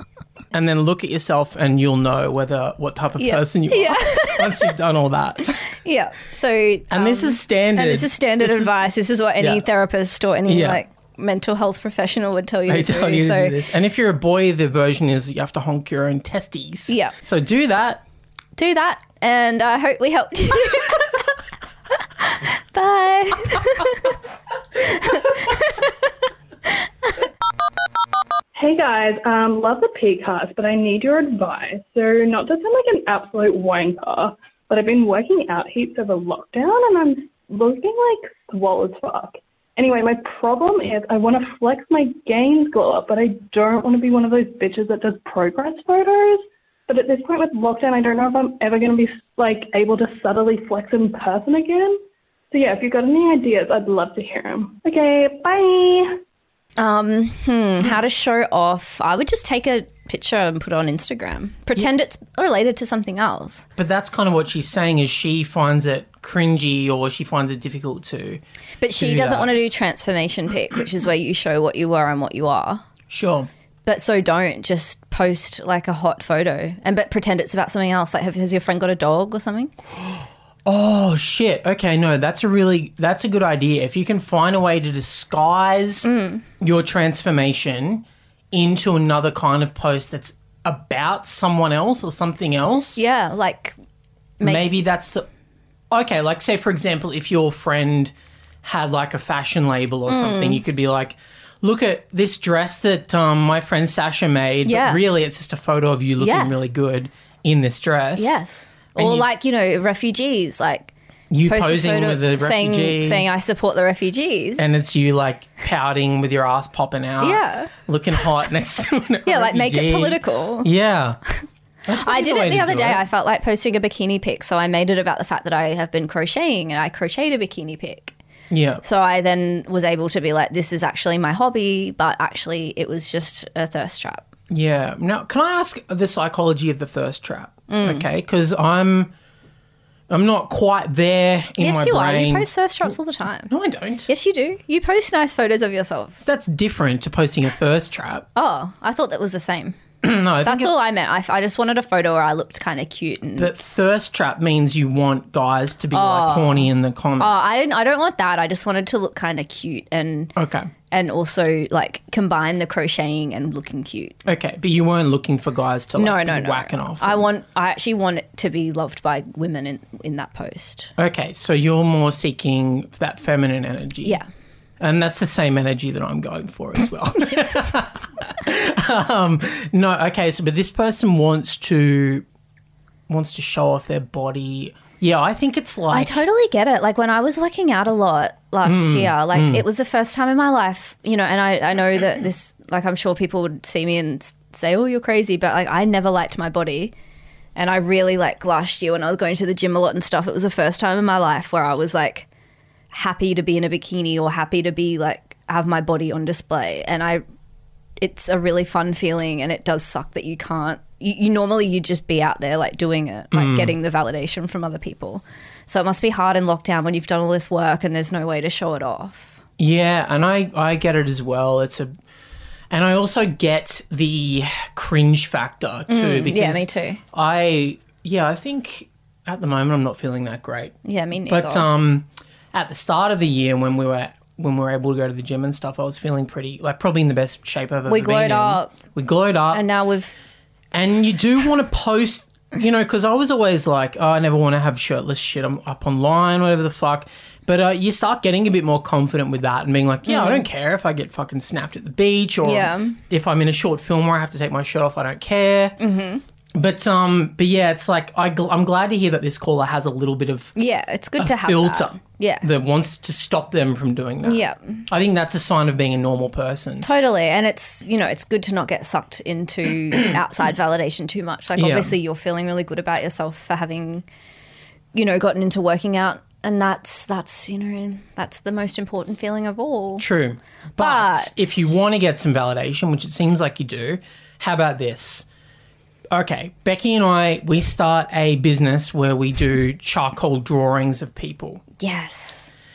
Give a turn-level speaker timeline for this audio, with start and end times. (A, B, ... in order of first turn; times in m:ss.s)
0:00.5-0:05.6 A
0:03.2-0:04.7 B
0:05.5-0:13.6 B
0:06.9-0:08.8 A
0:09.4-0:09.6 A
0:10.5-0:10.8 A
0:12.7-0:18.0 A
0:16.9-0:17.2 B
0:18.6-0:21.3 B
0:22.2-0:24.2 B
0:24.8-0:25.9 B
0:28.5-0:52.0 C
0:52.5-0:56.2 C
0:56.8-1:03.7 B
1:03.8-1:08.4 A
1:08.8-1:12.8 B
1:09.0-1:09.5 A
1:13.1-1:13.5 A
1:13.8-1:19.7 B
1:20.6-1:26.1 A
1:26.0-1:26.4 B
1:26.6-1:33.0 A
1:33.0-1:33.8 B
1:34.4-1:34.7 B
1:34.4-1:35.2 A
1:35.9-1:48.4 A
1:40.1-1:40.6 B
1:44.6-1:45.0 B
1:46.2-1:46.5 B
1:48.2-1:50.9 B
1:49.0-1:49.3 A
1:51.3-1:53.2 A
1:51.4-1:54.7 B
1:54.6-2:01.2 A
1:57.2-1:57.7 B
1:59.2-2:00.7 B
2:01.8-2:03.0 A
2:01.9-2:08.2 B
2:08.5-2:08.8 A
2:08.8-2:14.2 B
2:14.5-2:19.1 A
2:17.7-2:18.0 B
2:20.1-2:22.5 A
2:21.6-2:23.5 B
2:23.5-2:24.1 A
2:24.1-2:26.2 B
2:26.2-2:28.2 A
2:28.3-2:29.8 B
2:30.0-2:30.8 A
2:30.4-2:33.5 B
2:33.4-2:37.3 A
2:35.9-2:40.3 B
2:40.4-2:40.7 A
2:40.9-2:44.2 B
2:44.2-2:47.3 A
2:46.0-2:50.9 B
2:51.0-2:54.2 A
2:54.8-3:02.2 A
3:03.1-3:06.2 A
3:05.9-3:16.9 B
3:08.6-3:09.6 A
3:17.6-3:22.3 B
3:22.9-3:27.2 B
3:28.0-3:39.4 B
3:33.3-3:33.7 A
3:39.6-3:41.9 A
3:42.7-3:50.7 A
3:45.9-3:47.0 B
3:50.8-3:51.7 B
3:51.2-3:59.6 A
3:57.9-3:58.7 B
3:59.5-4:00.2 B
4:00.7-4:15.8 A
4:10.1-4:10.4 B
4:12.4-4:13.0 B
4:15.8-4:16.2 B
4:16.5-4:20.5 A
4:20.6-4:22.4 B
4:21.2-4:26.9 A
4:24.2-4:24.8 B
4:26.8-4:34.0 B
4:31.6-4:31.9 A
4:34.9-4:40.0 B
4:40.0-4:45.2 A
4:40.8-4:41.7 B
4:46.1-4:51.6 A
4:51.8-4:52.5 B